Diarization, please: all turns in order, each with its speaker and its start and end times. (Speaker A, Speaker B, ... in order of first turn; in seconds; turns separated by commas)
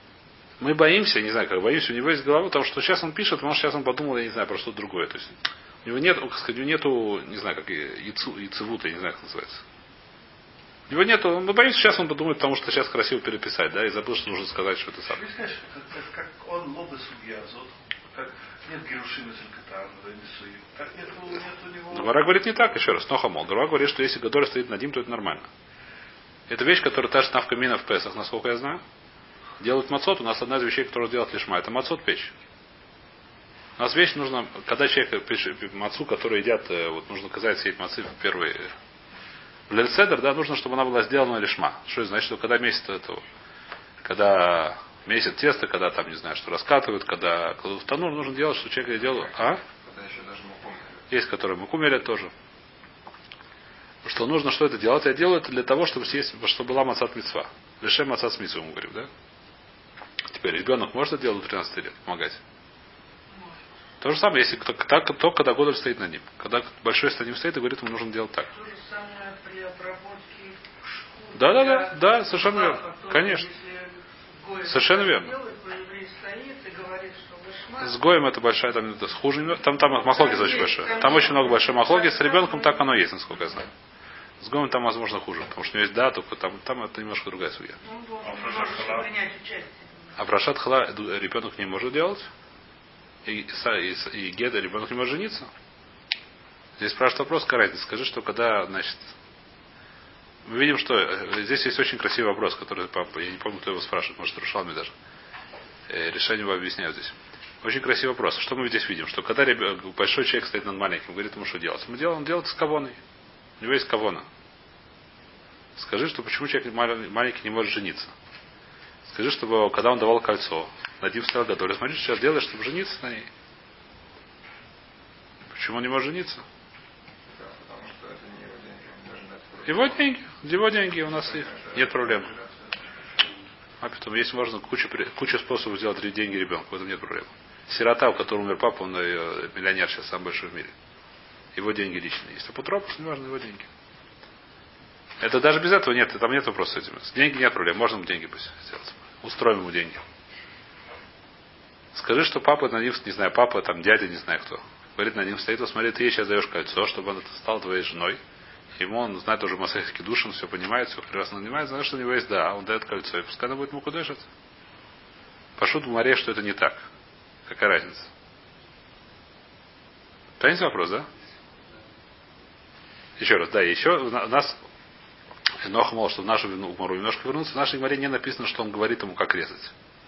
Speaker A: 0.6-9.6, Speaker A: 10.9-15.2, Speaker B: 15.1-22.3, Speaker A: 21.9-25.5, Speaker A: 26.5-28.8, Speaker A: 29.6-32.3, Speaker A: 33.8-38.7, Speaker A: 39.7-43.2, Speaker A: 44.0-49.6, Speaker C: 49.8-51.0, Speaker A: 51.1-52.3, Speaker A: 54.0-59.1, Speaker A: 60.3-62.4, Speaker A: 64.0-68.5, Speaker D: 68.5-78.0, Speaker A: 71.3-73.5, Speaker A: 74.6-75.3, Speaker A: 77.8-83.7, Speaker D: 80.1-82.8, Speaker A: 84.4-87.8, Speaker D: 87.8-90.1, Speaker B: 88.2-89.2, Speaker A: 90.2-92.3, Speaker A: 93.2-95.5, Speaker A: 96.8-99.1, Speaker A: 100.5-104.9, Speaker A: 105.9-113.0, Speaker A: 113.6-114.3, Speaker A: 115.8-118.1, Speaker A: 119.0-123.3, Speaker A: 125.5-126.4, Speaker C: 127.3-130.0, Speaker A: 129.7-132.3, Speaker C: 131.3-132.6, Speaker A: 133.8-140.7, Speaker A: 141.6-143.7, Speaker A: 145.2-150.0, Speaker A: 151.9-158.2, Speaker A: 158.8-164.3, Speaker A: 165.6-166.8, Speaker A: 167.5-168.1, Speaker A: 170.4-171.1, Speaker A: 173.2-174.6, Speaker A: 175.6-179.7